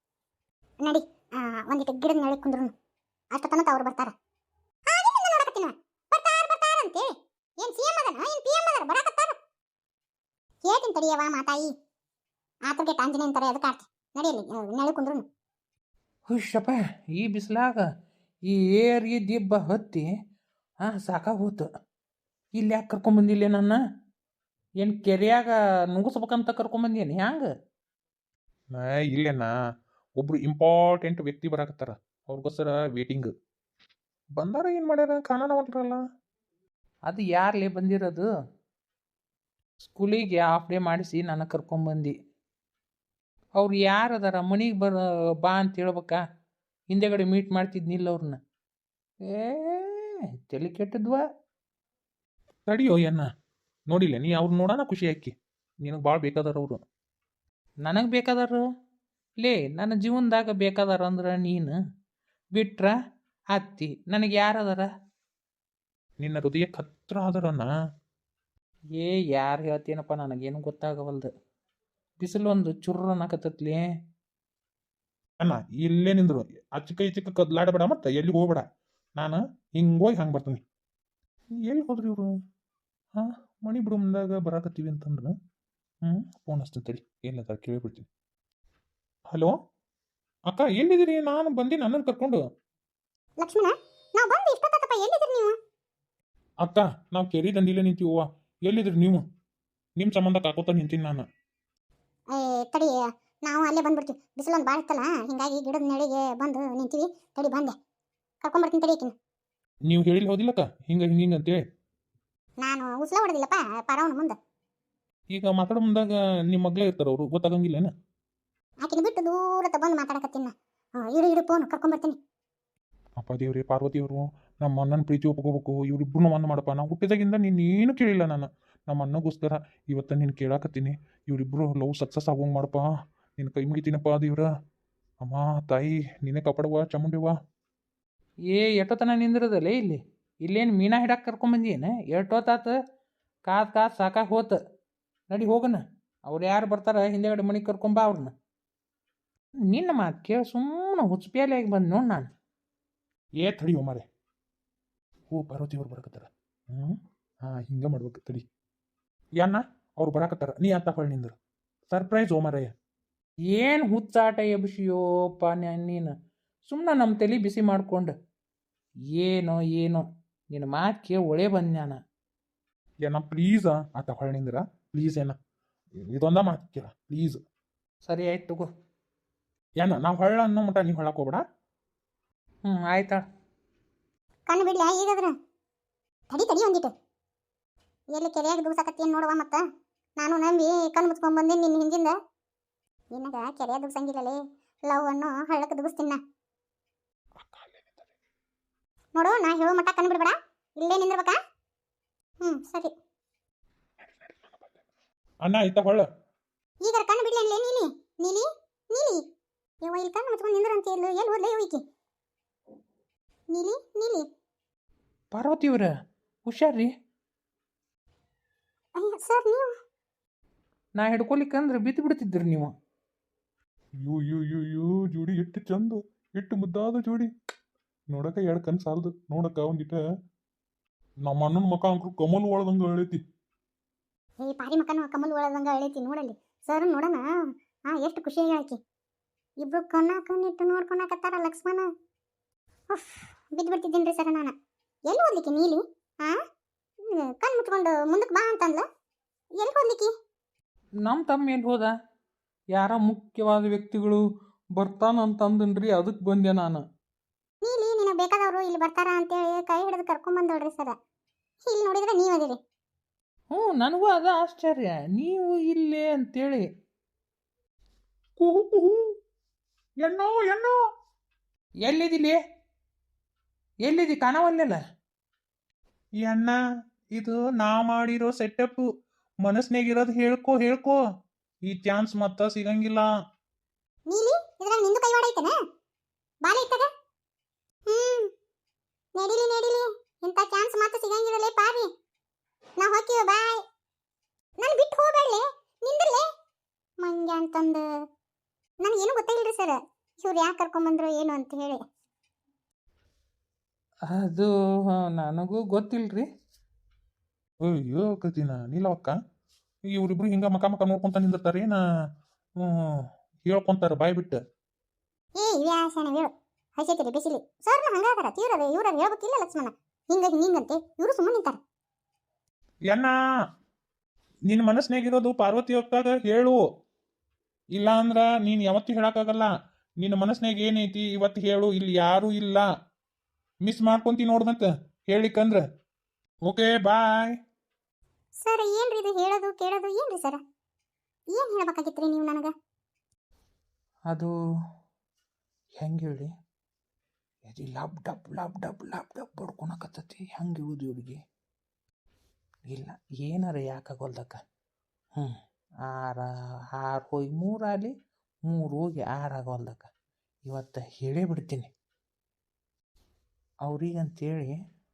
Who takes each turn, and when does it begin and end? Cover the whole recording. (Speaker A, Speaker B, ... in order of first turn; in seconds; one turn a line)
Speaker A: 0.8-2.7
Speaker A: 3.3-4.1
Speaker A: 4.9-7.1
Speaker A: 7.6-9.3
Speaker A: 10.6-11.7
Speaker A: 12.7-15.2
Speaker B: 16.3-17.9
Speaker B: 18.4-20.1
Speaker B: 20.8-21.7
Speaker B: 22.6-23.8
Speaker B: 24.8-27.5
Speaker C: 28.7-29.5
Speaker C: 30.2-33.3
Speaker C: 34.4-36.0
Speaker B: 37.0-38.3
Speaker B: 39.8-42.1
Speaker B: 43.5-46.2
Speaker B: 46.9-48.4
Speaker B: 49.2-51.2
Speaker C: 52.7-53.3
Speaker C: 53.9-55.3
Speaker C: 55.8-56.8
Speaker B: 57.8-58.6
Speaker B: 59.4-61.8
Speaker B: 62.5-62.9
Speaker B: 63.5-64.9
Speaker C: 66.2-67.7
Speaker B: 68.9-71.3
Speaker B: 72.2-73.9
Speaker C: 75.4-78.6
Speaker C: 79.2-80.6
Speaker C: 81.6-82.3
Speaker C: 83.2-85.3
Speaker C: 86.0-88.1
Speaker C: 90.5-92.4
Speaker A: 93.4-95.5
Speaker C: 96.6-99.2
Speaker C: 100.0-101.2
Speaker A: 102.3-107.7
Speaker A: 108.4-109.1
Speaker C: 109.9-111.6
Speaker A: 112.6-114.4
Speaker C: 115.3-117.9
Speaker A: 118.8-122.2
Speaker C: 123.2-132.8
Speaker C: 133.4-134.5
Speaker C: 135.2-137.3
Speaker B: 138.5-142.7
Speaker B: 143.4-144.6
Speaker B: 145.3-148.3
Speaker B: 149.7-152.3
Speaker C: 153.4-154.0
Speaker C: 155.3-158.4
Speaker C: 159.4-161.3
Speaker C: 161.9-162.7
Speaker B: 163.5-166.1
Speaker B: 166.7-168.1
Speaker B: 169.1-172.0
Speaker C: 173.0-175.3
Speaker C: 176.1-177.4
Speaker B: 178.1-178.7
Speaker C: 179.8-181.4
Speaker B: 182.6-183.2
Speaker A: 184.5-185.3
Speaker A: 186.3-186.9
Speaker A: 188.1-189.6
Speaker A: 190.2-192.1
Speaker A: 193.1-196.2
Speaker C: 197.4-198.1
Speaker A: 199.1-201.4
Speaker A: 202.4-202.9
Speaker C: 204.1-204.8
Speaker C: 205.4-206.1
Speaker A: 206.8-209.2
Speaker A: 209.8-211.8
Speaker A: 213.5-214.3
Speaker B: 215.3-215.9
Speaker B: 216.4-216.9
Speaker A: 219.0-219.7
Speaker B: 221.0-222.7
Speaker C: 224.0-227.3
Speaker C: 228.1-230.0
Speaker C: 231.2-233.2
Speaker A: 234.4-237.2
Speaker A: 237.9-238.8
Speaker A: 239.6-241.9
Speaker A: 242.9-244.5
Speaker A: 245.1-246.3
Speaker A: 247.0-248.8
Speaker A: 249.6-250.1
Speaker B: 251.0-251.9
Speaker B: 252.7-254.2
Speaker B: 254.8-256.8
Speaker A: 257.6-261.0
Speaker A: 261.6-262.6
Speaker B: 263.5-266.6
Speaker C: 268.4-269.1
Speaker C: 270.0-270.8
Speaker B: 271.8-272.4
Speaker B: 273.8-274.8
Speaker C: 276.2-276.6
Speaker C: 277.1-278.8
Speaker C: 279.4-281.0
Speaker C: 281.7-283.1
Speaker A: 284.1-285.6
Speaker A: 286.4-286.9
Speaker A: 287.9-288.3
Speaker A: 289.1-291.9
Speaker A: 292.8-293.6
Speaker A: 294.6-296.2
Speaker A: 297.0-297.8
Speaker A: 298.8-301.8
Speaker B: 304.1-306.3
Speaker C: 307.6-309.1
Speaker C: 309.9-311.8
Speaker C: 312.6-314.4
Speaker A: 315.4-321.6
Speaker C: 324.5-326.6
Speaker C: 327.7-329.5
Speaker C: 330.0-332.7
Speaker C: 333.6-335.6
Speaker C: 336.4-337.3
Speaker A: 338.4-340.4
Speaker A: 341.3-342.5
Speaker B: 345.8-346.3
Speaker B: 347.4-351.2
Speaker B: 352.6-354.4
Speaker B: 355.8-357.9
Speaker B: 358.5-359.9
Speaker B: 360.4-361.7
Speaker B: 363.6-364.6